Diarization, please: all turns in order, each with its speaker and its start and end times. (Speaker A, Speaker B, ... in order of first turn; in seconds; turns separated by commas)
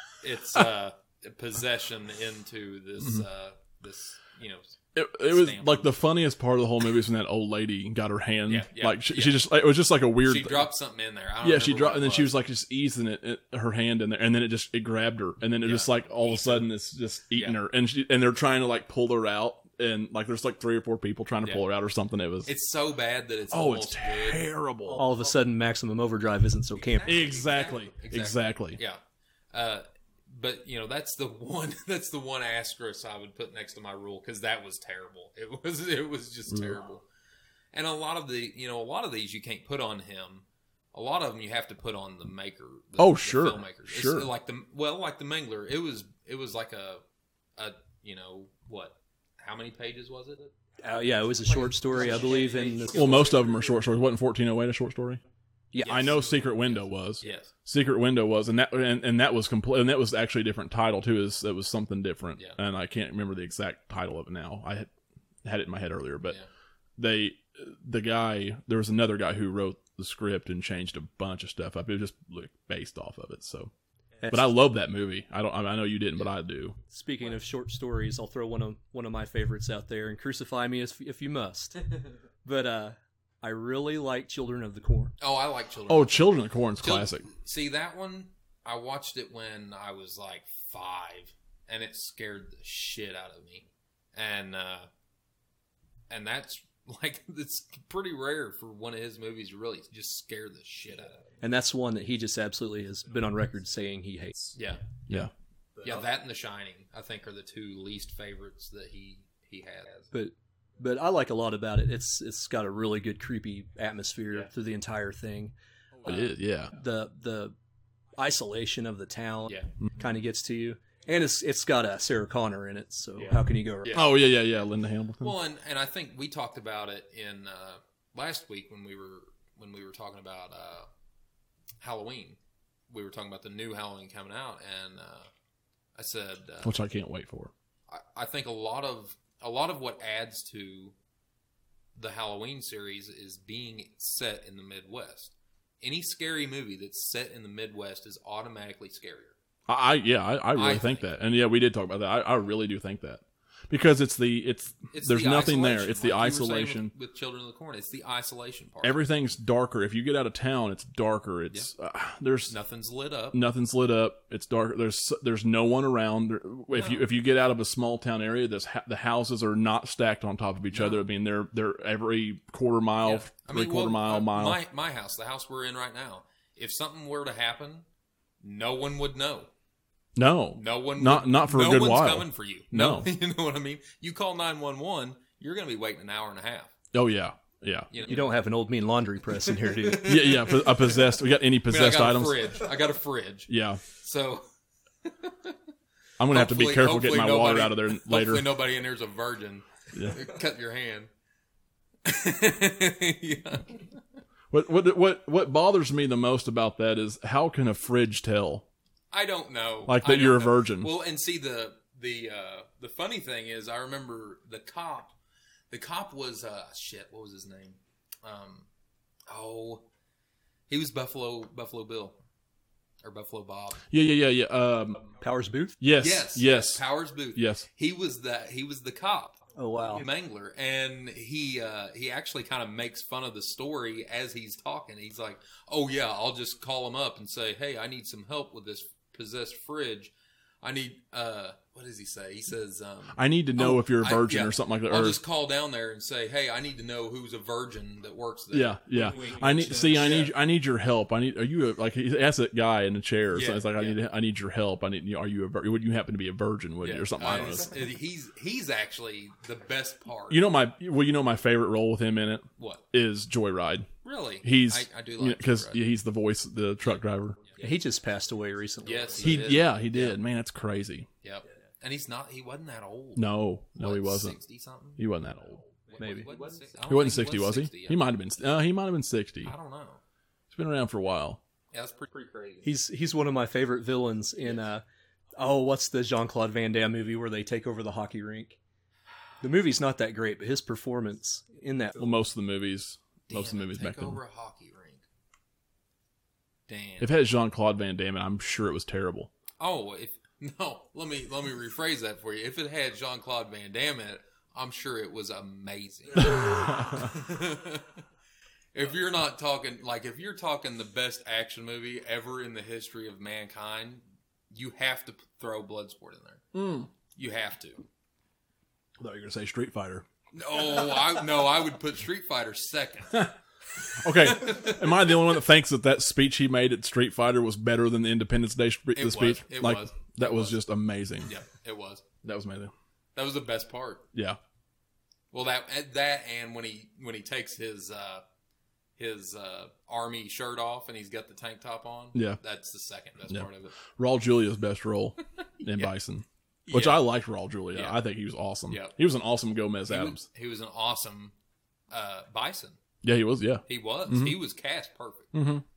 Speaker A: 0.2-6.0, Speaker B: 3.0-3.2, Speaker B: 4.9-10.7, Speaker A: 8.5-9.4, Speaker A: 10.2-12.3, Speaker B: 11.4-22.5, Speaker A: 15.6-16.7, Speaker A: 22.4-25.1, Speaker B: 23.5-25.0, Speaker C: 24.9-27.3, Speaker A: 26.8-29.0, Speaker B: 27.1-28.8, Speaker A: 29.5-37.0, Speaker B: 36.5-36.8, Speaker A: 37.7-47.0, Speaker B: 43.0-44.3, Speaker A: 47.6-50.5, Speaker C: 50.8-53.4, Speaker A: 51.5-53.5, Speaker B: 52.9-55.2, Speaker C: 55.7-56.1, Speaker A: 55.8-57.5, Speaker B: 55.8-64.9, Speaker B: 65.4-66.4, Speaker B: 67.0-73.7, Speaker C: 74.2-74.5, Speaker B: 74.3-76.8, Speaker C: 76.9-85.1, Speaker A: 85.2-94.9, Speaker B: 85.9-87.3, Speaker A: 96.1-101.2, Speaker C: 101.4-104.6, Speaker A: 104.5-104.8, Speaker A: 105.8-110.1, Speaker C: 110.1-115.5, Speaker B: 116.0-116.7, Speaker C: 116.7-117.5, Speaker C: 118.2-124.0, Speaker A: 123.2-124.2, Speaker B: 123.9-125.3, Speaker A: 125.2-130.9, Speaker A: 131.8-132.4, Speaker A: 132.9-135.3, Speaker A: 135.9-136.8, Speaker B: 136.6-137.5, Speaker A: 137.9-140.9, Speaker A: 141.9-149.3, Speaker B: 149.7-156.9, Speaker A: 150.5-151.1, Speaker A: 154.9-159.0, Speaker B: 158.8-162.5, Speaker A: 162.5-163.4, Speaker B: 163.3-174.6, Speaker A: 166.7-167.0, Speaker A: 170.7-171.0, Speaker A: 173.0-177.8, Speaker A: 178.4-179.5, Speaker B: 180.2-183.1, Speaker A: 180.5-186.7, Speaker B: 186.9-187.9, Speaker A: 187.9-188.3, Speaker C: 188.0-190.2, Speaker A: 189.5-191.1, Speaker B: 190.0-192.5, Speaker A: 191.7-194.4, Speaker B: 193.5-193.8, Speaker A: 195.0-195.5, Speaker B: 196.2-198.4, Speaker A: 196.3-201.1, Speaker B: 199.9-200.2, Speaker A: 202.0-204.0, Speaker B: 204.5-208.7, Speaker A: 209.1-215.1, Speaker B: 209.9-210.9, Speaker A: 215.7-218.7, Speaker A: 219.3-219.8, Speaker A: 220.7-222.2, Speaker A: 223.0-223.8, Speaker B: 223.9-225.0, Speaker C: 225.2-225.8, Speaker B: 225.8-227.7, Speaker A: 226.0-249.4, Speaker C: 229.6-230.1, Speaker B: 243.1-245.2, Speaker B: 248.5-257.7, Speaker C: 248.9-250.3, Speaker A: 249.9-250.2, Speaker A: 253.3-254.0, Speaker A: 256.8-260.4, Speaker B: 260.3-263.9, Speaker A: 262.6-262.8, Speaker A: 264.0-265.8, Speaker B: 264.4-267.4, Speaker A: 266.8-267.6, Speaker C: 267.6-269.5, Speaker A: 268.8-270.2, Speaker B: 269.2-271.1, Speaker A: 271.2-275.0, Speaker B: 273.1-274.4, Speaker B: 274.9-275.6, Speaker A: 275.7-278.1, Speaker C: 276.0-276.3, Speaker B: 276.9-279.5, Speaker A: 279.4-280.0, Speaker B: 280.5-281.4, Speaker A: 281.7-282.7, Speaker C: 282.6-284.8, Speaker C: 285.4-288.6, Speaker C: 289.4-292.0, Speaker B: 292.0-294.2, Speaker A: 293.3-295.0, Speaker A: 296.7-297.1, Speaker B: 297.0-299.3, Speaker A: 299.6-308.0, Speaker B: 306.2-307.1, Speaker A: 308.7-316.4, Speaker B: 316.5-316.9, Speaker A: 317.1-317.8, Speaker B: 319.0-320.1, Speaker A: 320.3-323.3, Speaker B: 323.1-331.3, Speaker A: 324.1-325.2, Speaker A: 328.9-330.6, Speaker A: 331.2-332.0, Speaker B: 332.2-332.7, Speaker A: 333.1-334.1, Speaker A: 335.3-338.2, Speaker A: 339.0-343.8, Speaker B: 342.1-342.4, Speaker B: 343.3-350.2, Speaker A: 345.6-345.9, Speaker A: 346.7-347.1, Speaker A: 347.7-348.0, Speaker A: 348.7-349.0, Speaker A: 349.9-351.3, Speaker A: 351.9-352.8, Speaker B: 353.0-354.4, Speaker A: 353.7-355.3, Speaker B: 355.3-355.6